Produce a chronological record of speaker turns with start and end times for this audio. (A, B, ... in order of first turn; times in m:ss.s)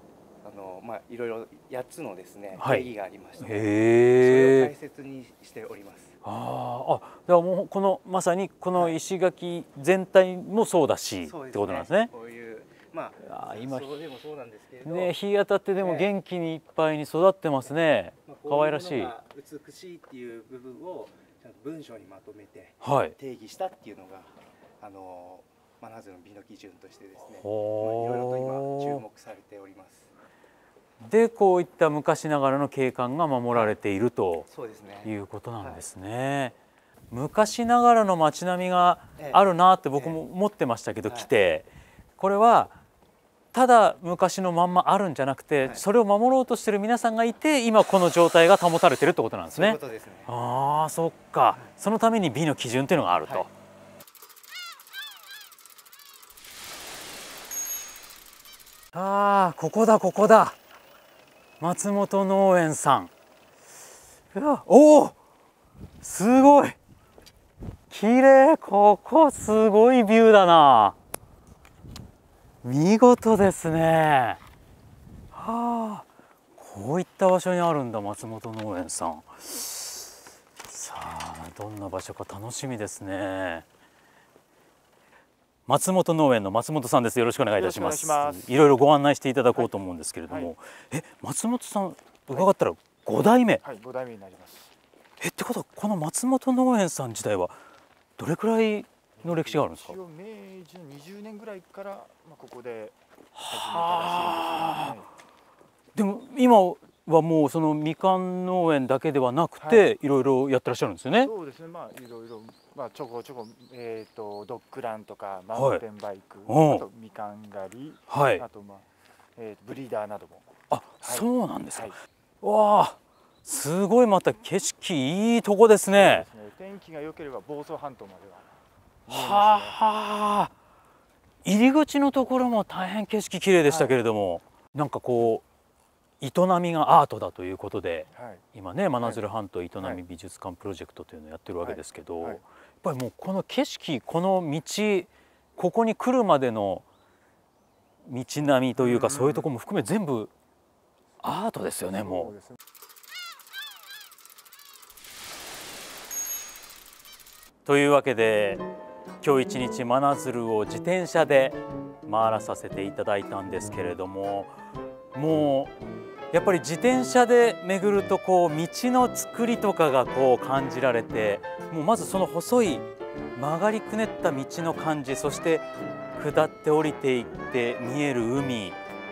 0:00.4-0:06.2 A
0:02.5-0:04.7 B
0:06.2-0:12.1 B
0:08.7-0:09.0 A
0:11.2-0:15.1 A
0:13.2-0:14.0 B
0:14.8-0:19.1 B
0:15.8-0:16.1 A
0:17.6-0:30.1 A
0:22.8-0:23.2 B
0:27.3-0:29.0 B
0:31.0-0:34.5 B
0:34.5-0:35.9 A
0:35.0-0:36.6 B
0:37.1-0:42.8 B
0:39.2-0:40.2 A
0:41.0-0:41.3 A
0:43.5-0:53.5 B
0:49.5-0:50.3 A
0:58.9-1:00.6 B
1:01.6-1:03.1 B
1:04.3-1:05.2 B
1:06.0-1:06.8 B
1:07.9-1:11.0 B
1:12.6-1:14.4 B
1:15.3-1:20.1 B
1:20.6-1:23.6 B
1:25.7-1:33.6 B
1:27.6-1:28.5 C
1:30.3-1:30.5 C
1:33.6-1:34.7 C
1:35.2-1:37.6 B
1:38.2-1:40.0 B
1:39.2-1:45.1 C
1:43.4-1:45.0 B
1:46.0-1:51.3 B
1:49.6-1:49.9 C
1:51.2-2:02.0 C
1:55.5-1:55.8 B
1:56.5-1:56.9 B
1:58.1-1:58.4 B
2:00.7-2:06.3 B
2:05.9-2:08.6 C
2:09.1-2:09.8 C
2:09.1-2:10.5 B
2:11.4-2:15.4 B
2:13.7-2:14.0 C
2:16.2-2:26.9 B
2:18.1-2:18.4 C
2:19.0-2:19.2 C
2:21.6-2:22.4 C
2:28.0-2:30.3 B
2:28.8-2:29.5 C
2:31.2-2:32.3 B
2:32.0-2:32.5 C
2:37.6-2:38.6 B
2:39.2-2:44.6 B
2:45.1-2:45.7 B
2:46.3-2:58.8 B